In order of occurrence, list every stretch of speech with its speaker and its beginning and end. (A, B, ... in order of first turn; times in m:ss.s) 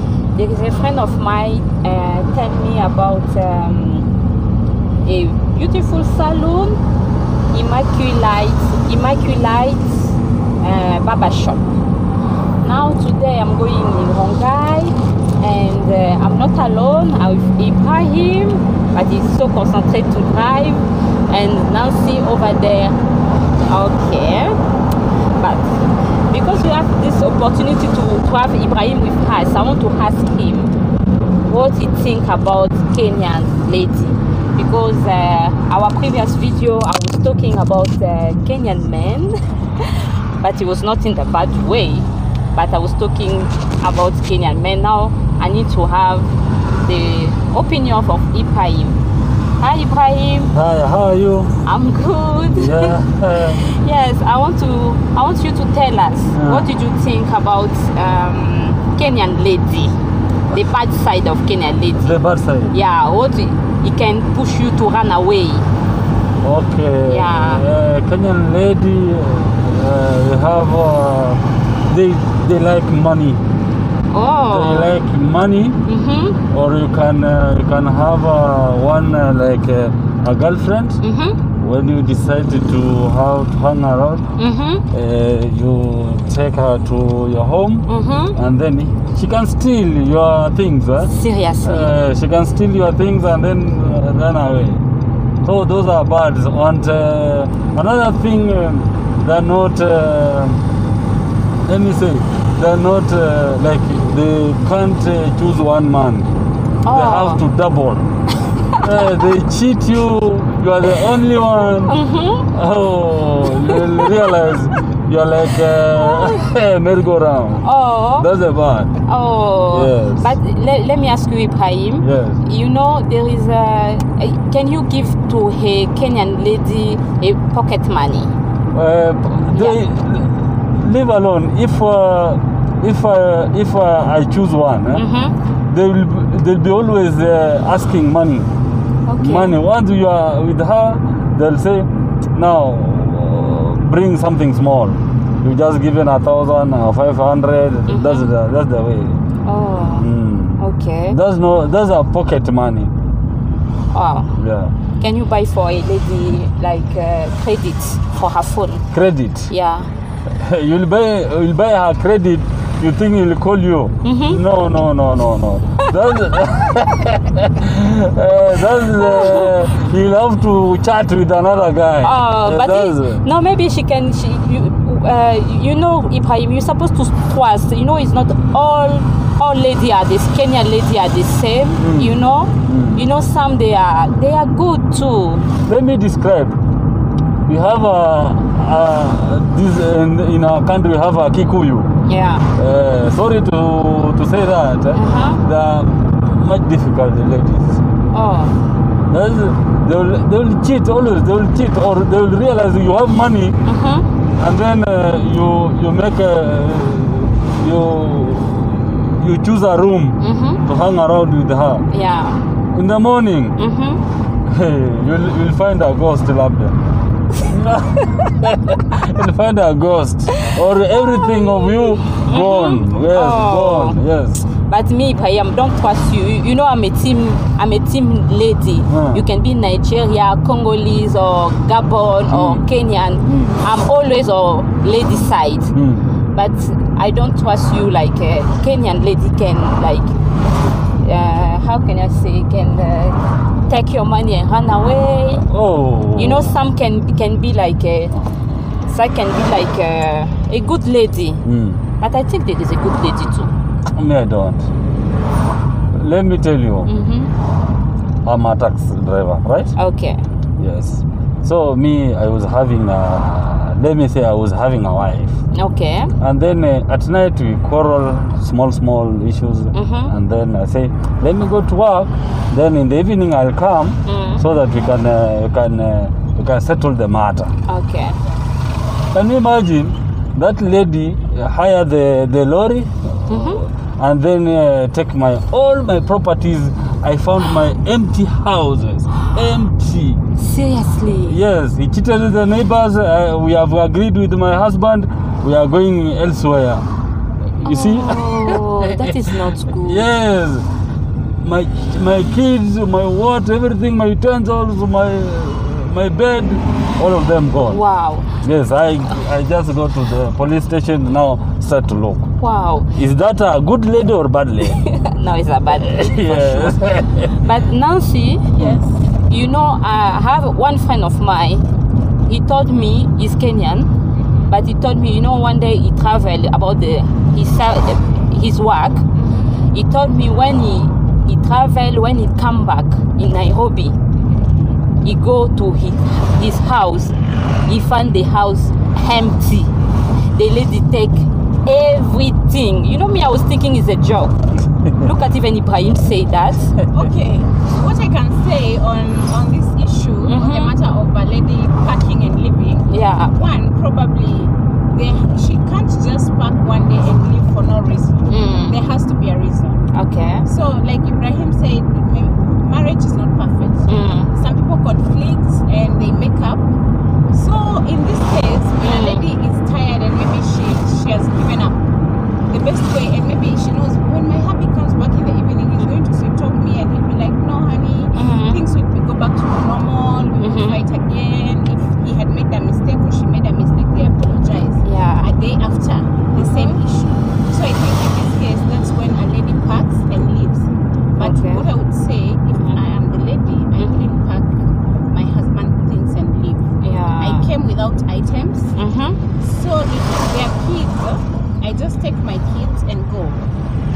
0:00.3-0:04.1 A
0:05.0-0:06.8 A
0:07.5-0:11.6 A
0:12.6-0:23.0 A
0:23.7-0:24.6 A
0:25.4-0:25.7 A
0:26.3-0:30.7 A
0:31.4-0:49.0 A
0:49.6-0:50.5 A
0:50.5-0:51.5 B
0:51.6-0:53.0 A
0:52.5-0:53.6 B
0:53.5-0:59.9 A
0:56.3-0:56.7 B
1:00.5-1:02.1 A
1:02.0-1:02.8 B
1:02.7-1:05.7 A
1:06.4-1:13.4 B
1:07.1-1:07.6 A
1:14.1-1:15.0 A
1:14.5-1:15.8 B
1:15.8-1:16.4 A
1:16.5-1:21.0 B
1:21.0-1:21.4 A
1:21.6-1:24.3 B
1:24.4-1:24.8 A
1:24.9-1:34.8 B
1:27.9-1:28.4 A
1:31.1-1:31.9 A
1:35.4-1:40.6 B
1:41.6-1:46.3 B
1:46.8-1:47.4 A
1:46.9-1:48.0 B
1:48.8-1:52.0 B
1:51.7-1:52.5 A
1:52.5-1:58.9 B
1:53.5-1:54.4 A
1:56.0-1:56.4 A
1:57.6-1:58.3 A
1:59.0-2:08.3 A
1:59.7-2:00.3 B
2:02.0-2:02.4 B
2:08.7-2:15.0 B
2:09.5-2:09.8 A
2:14.9-2:15.4 A
2:15.7-2:18.5 B
2:19.0-2:19.6 A
2:19.2-2:29.2 B
2:27.9-2:28.3 A
2:29.4-2:30.1 A
2:30.0-2:32.9 B
2:30.6-2:31.2 A
2:33.9-2:34.4 A
2:34.4-2:34.7 B
2:35.0-2:38.8 A
2:38.9-2:39.5 B
2:39.5-2:39.9 A
2:40.3-2:53.2 B
2:44.0-2:44.4 A
2:49.0-2:49.5 A
2:52.0-3:05.5 A
3:01.8-3:03.0 B
3:05.6-3:06.6 B
3:07.4-3:11.9 B
3:12.0-3:12.5 A
3:12.5-3:17.8 B
3:14.9-3:15.4 A
3:18.1-3:18.6 A
3:19.1-3:23.6 B
3:23.6-3:24.1 A
3:24.4-3:31.8 B
3:30.2-3:30.6 A
3:31.9-3:32.4 A
3:32.7-3:33.6 B
3:33.6-3:34.0 A
3:34.4-3:36.8 B
3:37.4-3:44.4 B
3:40.4-3:44.0 A
3:44.6-3:55.7 A
3:48.9-3:49.2 B
3:52.3-3:52.6 B
3:53.2-3:53.6 B
3:55.7-3:56.1 B
3:56.3-4:00.1 A
4:01.0-4:05.4 A
4:05.4-4:06.6 B
4:06.2-4:08.1 A
4:08.8-4:11.4 A
4:11.4-4:11.8 B
4:12.0-4:13.5 A
4:13.9-4:14.7 B
4:15.9-4:16.9 B
4:16.8-4:17.3 A
4:18.2-4:19.7 B
4:19.8-4:20.2 A
4:20.6-4:25.4 B
4:25.5-4:26.1 A
4:26.2-4:37.5 B
4:29.7-4:30.1 A
4:34.0-4:34.4 A
4:37.7-4:38.2 A
4:39.1-4:50.2 B
4:43.3-4:43.6 A
4:50.4-4:51.4 A
4:51.2-4:56.8 B
4:57.6-4:58.9 B
4:57.6-5:00.0 A
4:59.7-5:00.7 B
5:01.4-5:07.8 B
5:07.6-5:08.3 A
5:08.4-5:12.3 B
5:12.4-5:12.9 A
5:12.9-5:14.8 B
5:14.6-5:18.5 A
5:15.8-5:17.3 B
5:18.5-5:19.0 C
5:19.3-5:21.6 A
5:22.2-5:23.9 A
5:24.5-5:34.0 A
5:35.0-5:37.1 A
5:37.6-5:39.7 A
5:40.3-5:46.8 A
5:46.9-5:59.8 C
5:50.3-5:50.7 A
5:52.9-5:53.4 A
5:58.3-5:58.8 A
5:59.9-6:00.4 A
6:00.4-6:06.6 C
6:03.9-6:04.3 A
6:07.3-6:11.8 C
6:08.8-6:09.2 A
6:12.5-6:34.5 C
6:18.1-6:18.6 A
6:20.4-6:20.8 A
6:24.8-6:25.3 A
6:26.4-6:26.8 A
6:31.2-6:31.6 A
6:32.6-6:32.8 A
6:35.1-6:38.8 C
6:36.8-6:37.5 A
6:38.8-6:39.2 A
6:39.4-6:43.5 C